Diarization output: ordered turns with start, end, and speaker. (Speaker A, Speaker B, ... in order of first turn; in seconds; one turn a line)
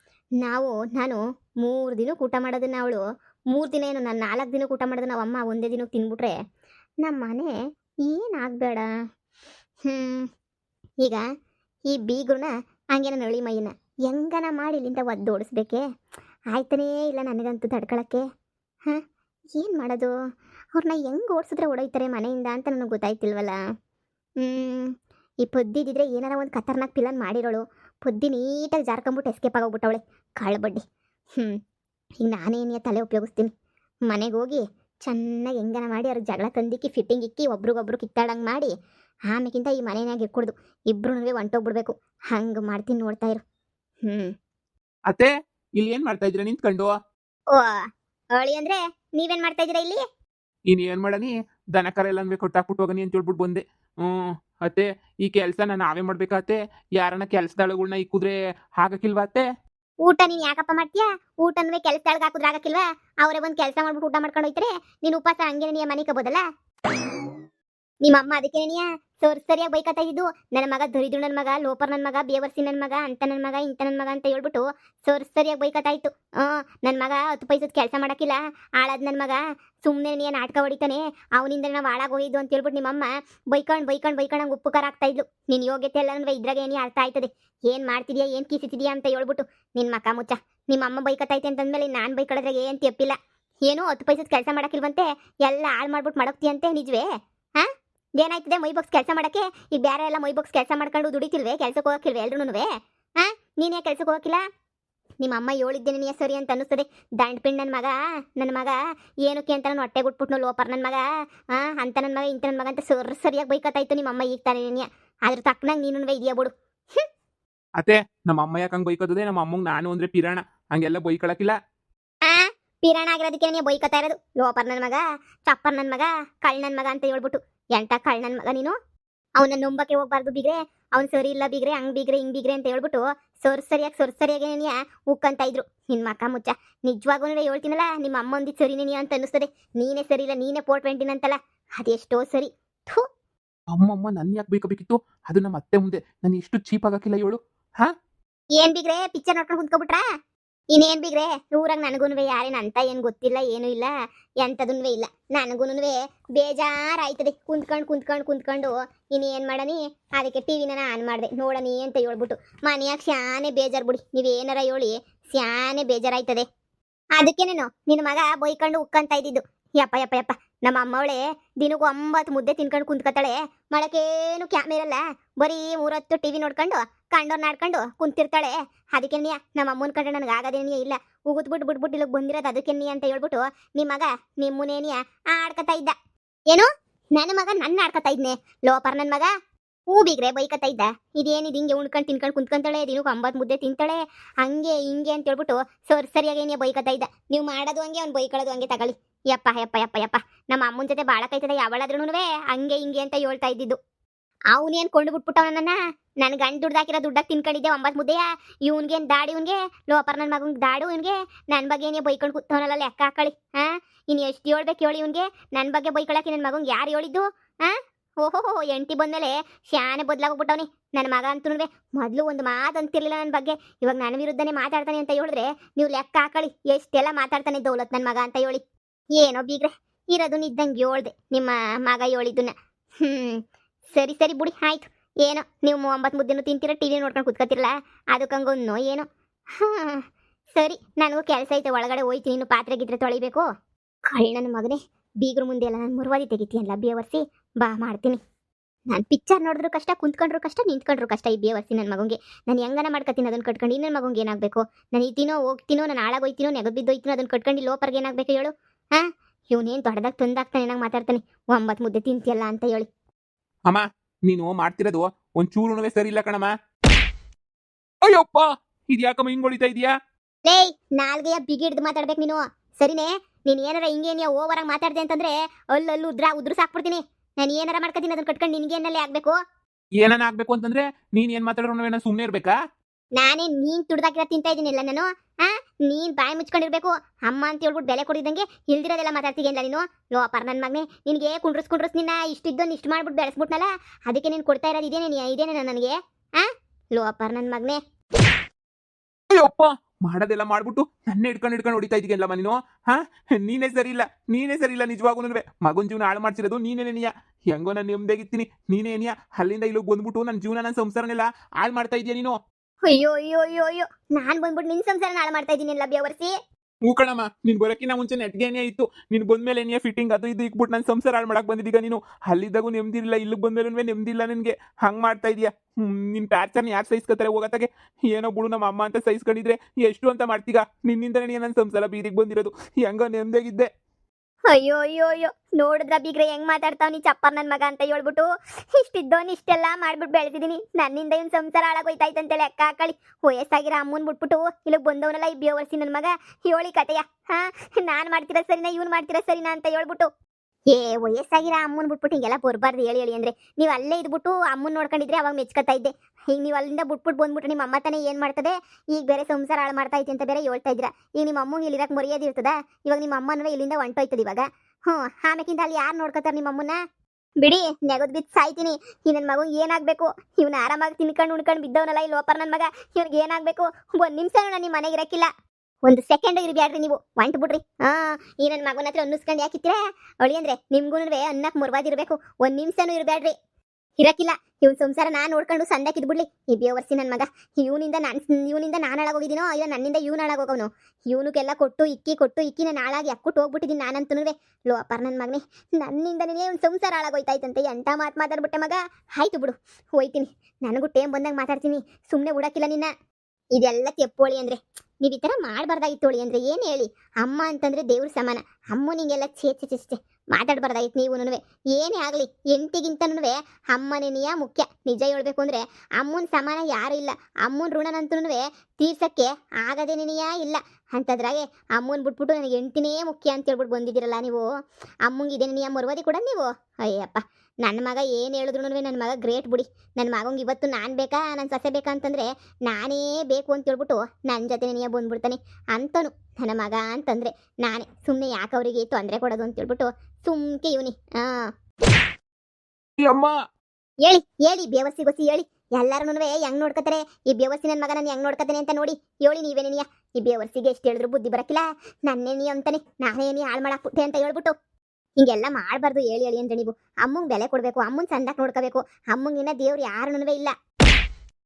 Speaker A: 0.4-3.0
Speaker A: 3.5-6.3
Speaker A: 7.0-7.5
Speaker A: 8.1-8.9
Speaker A: 9.8-10.3
Speaker A: 11.9-15.8
Speaker A: 16.5-18.2
Speaker A: 19.6-20.1
Speaker A: 20.8-23.6
Speaker A: 24.4-24.9
Speaker A: 25.4-30.8
Speaker A: 32.2-33.5
Speaker A: 34.1-38.7
Speaker A: 39.3-43.4
Speaker A: 44.0-44.3
Speaker B: 45.1-46.9
Speaker A: 48.4-50.0
Speaker B: 50.7-59.4
Speaker A: 60.0-66.4
Speaker A: 68.0-93.2
Speaker A: 93.7-97.0
Speaker A: 98.2-102.7
Speaker A: 103.2-104.4
Speaker A: 105.2-111.0
Speaker A: 111.5-117.0
Speaker B: 117.8-121.6
Speaker A: 122.2-128.8
Speaker A: 129.4-143.0
Speaker B: 143.7-147.9
Speaker A: 148.6-150.0
Speaker A: 150.7-153.9
Speaker A: 154.4-166.4
Speaker A: 167.2-185.9
Speaker A: 186.5-189.3
Speaker A: 189.9-203.8
Speaker A: 204.5-228.6
Speaker A: 229.2-233.4
Speaker A: 233.9-239.1
Speaker A: 239.6-240.0
Speaker A: 240.6-243.4
Speaker A: 244.1-248.2
Speaker A: 248.9-262.9
Speaker B: 263.7-266.5
Speaker B: 268.1-269.9
Speaker A: 270.5-279.4
Speaker B: 280.0-282.5
Speaker A: 283.2-297.8
Speaker B: 299.4-312.4
Speaker A: 312.9-316.3
Speaker B: 316.9-333.7
Speaker A: 334.5-350.1
Speaker A: 350.7-366.8
Speaker A: 367.4-375.3
Speaker A: 375.8-383.3
Speaker A: 384.0-402.9
Speaker A: 403.6-424.4
Speaker A: 425.1-441.5
Speaker B: 443.0-443.3
Speaker A: 444.0-454.5
Speaker A: 455.2-460.5